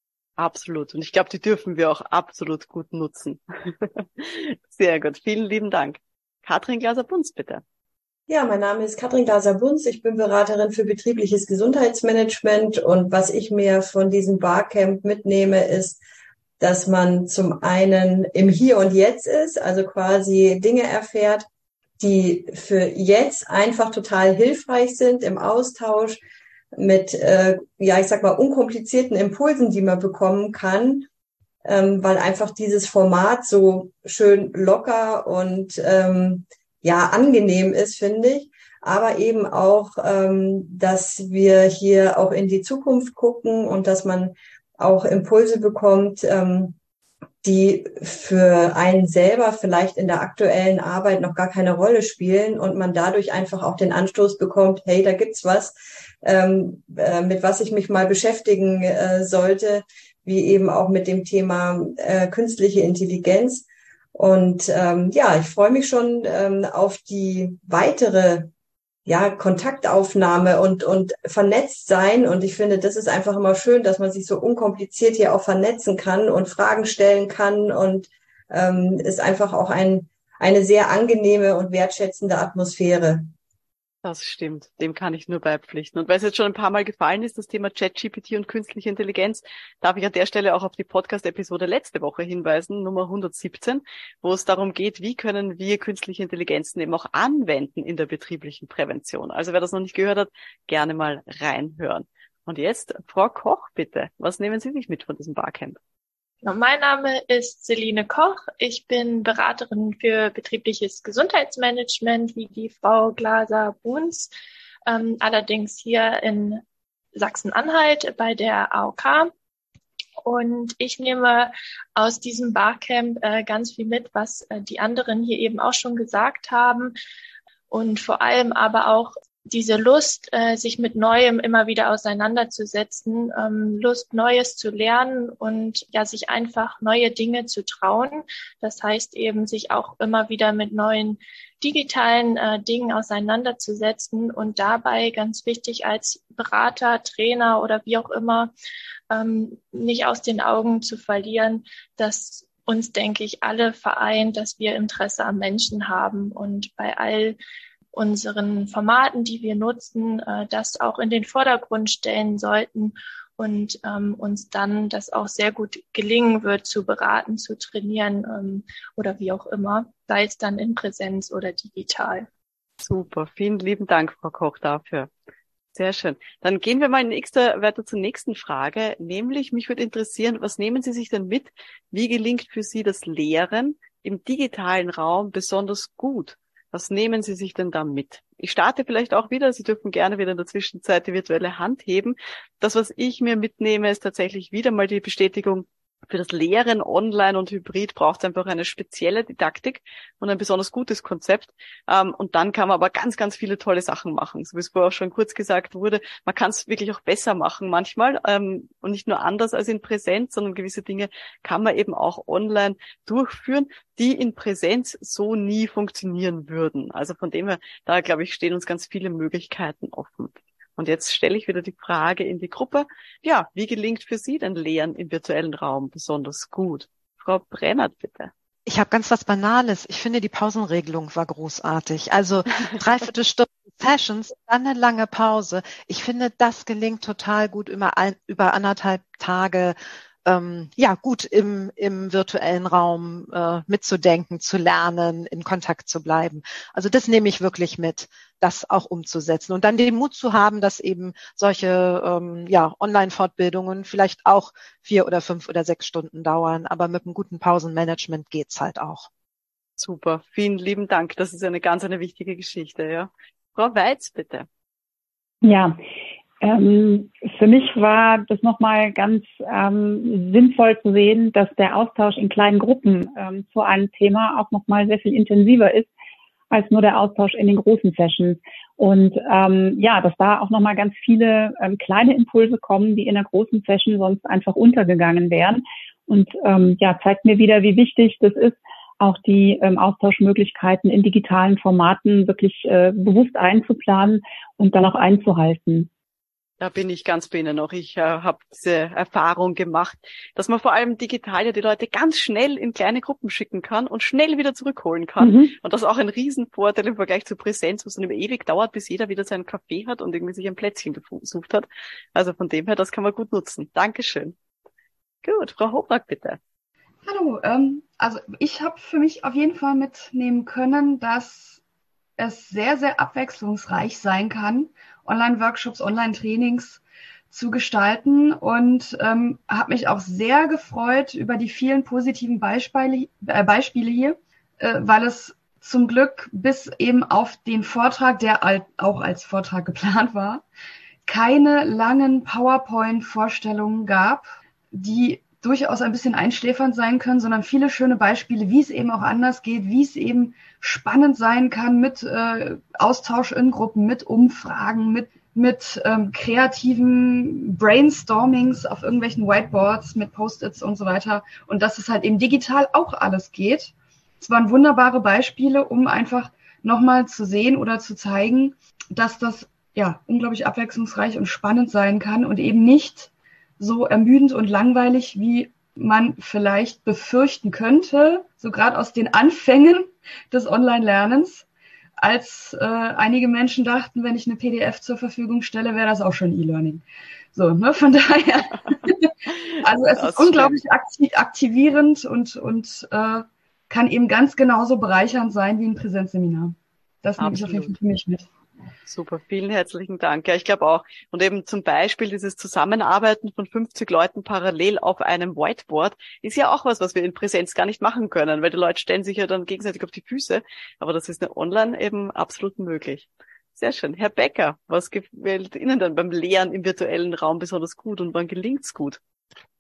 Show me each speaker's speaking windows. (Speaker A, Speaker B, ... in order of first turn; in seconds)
Speaker A: 0.4-7.6, 84.0-105.8, 172.8-175.1, 175.8-228.3, 259.8-264.5, 296.6-314.4, 315.2-316.4, 389.3-390.6, 397.2-397.8, 398.9-419.0
Speaker B: 8.3-16.0, 16.6-21.5, 22.0-26.2, 26.7-31.1, 31.6-46.8, 47.4-68.5, 69.1-83.3
Speaker C: 106.4-114.3, 114.9-116.6, 117.2-119.3, 120.2-126.9, 127.7-148.5, 149.1-157.4, 157.9-172.3
Speaker D: 228.7-259.1
Speaker E: 265.4-265.8, 266.4-275.9, 276.5-295.9, 305.2-305.5
Speaker F: 317.1-321.6, 322.2-340.4, 341.1-381.5, 382.0-389.1, 389.6-398.3